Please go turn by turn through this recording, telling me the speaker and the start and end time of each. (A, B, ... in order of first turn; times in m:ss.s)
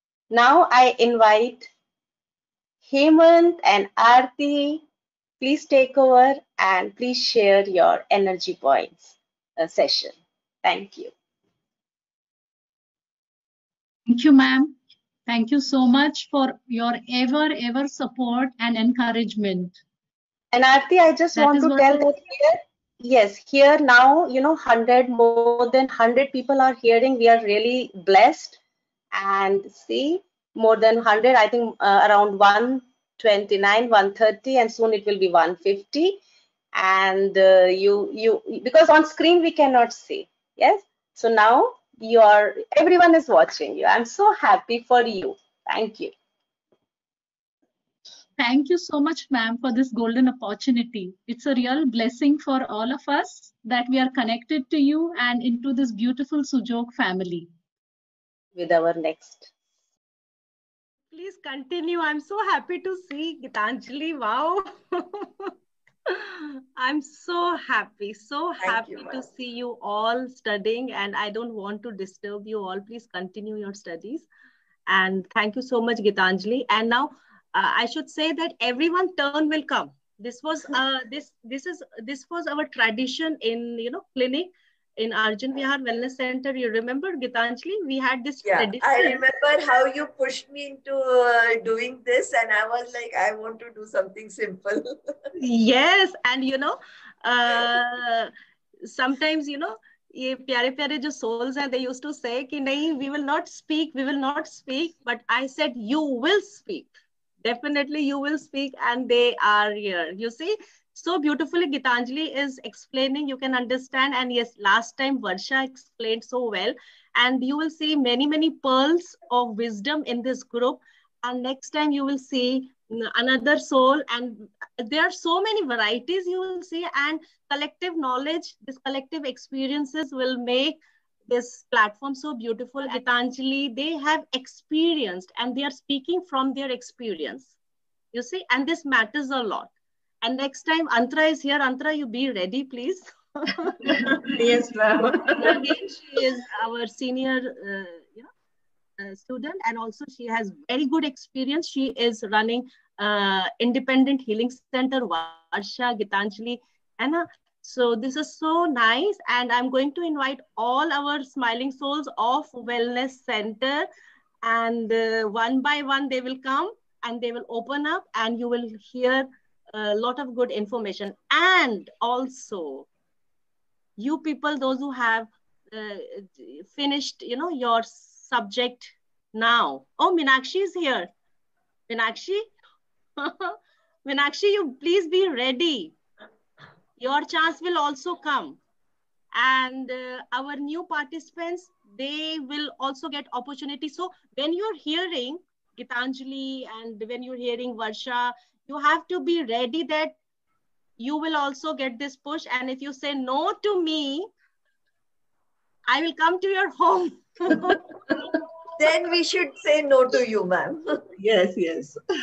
0:00.3-0:01.7 A
0:02.8-0:04.8 A
0:05.4-0:11.1 A
0:14.1-0:14.7 B
0:15.3-0:19.8 B
0:20.5-0:28.6 A
0:21.3-0:22.2 B
0:29.1-0:36.2 A
0:36.7-0:46.1 A
0:48.4-0:57.5 B
0:58.6-0:59.5 A
1:01.1-1:05.5 C
1:06.1-1:14.3 C
1:08.6-1:09.2 D
1:14.9-1:29.2 C
1:28.4-1:34.8 D
1:35.4-1:38.3 C
1:38.9-2:17.5 C
2:18.1-2:19.7 C
2:20.2-2:23.1 C
2:24.3-2:25.6 D
2:25.4-2:28.3 C
2:29.0-2:43.9 C
2:44.4-2:52.9 C
2:54.0-3:01.1 C
3:01.9-3:02.5 C
3:03.2-3:06.0 C
3:07.0-3:08.6 C
3:09.3-3:20.2 C
3:21.0-3:24.3 C
3:25.9-3:27.9 C
3:28.8-3:31.0 D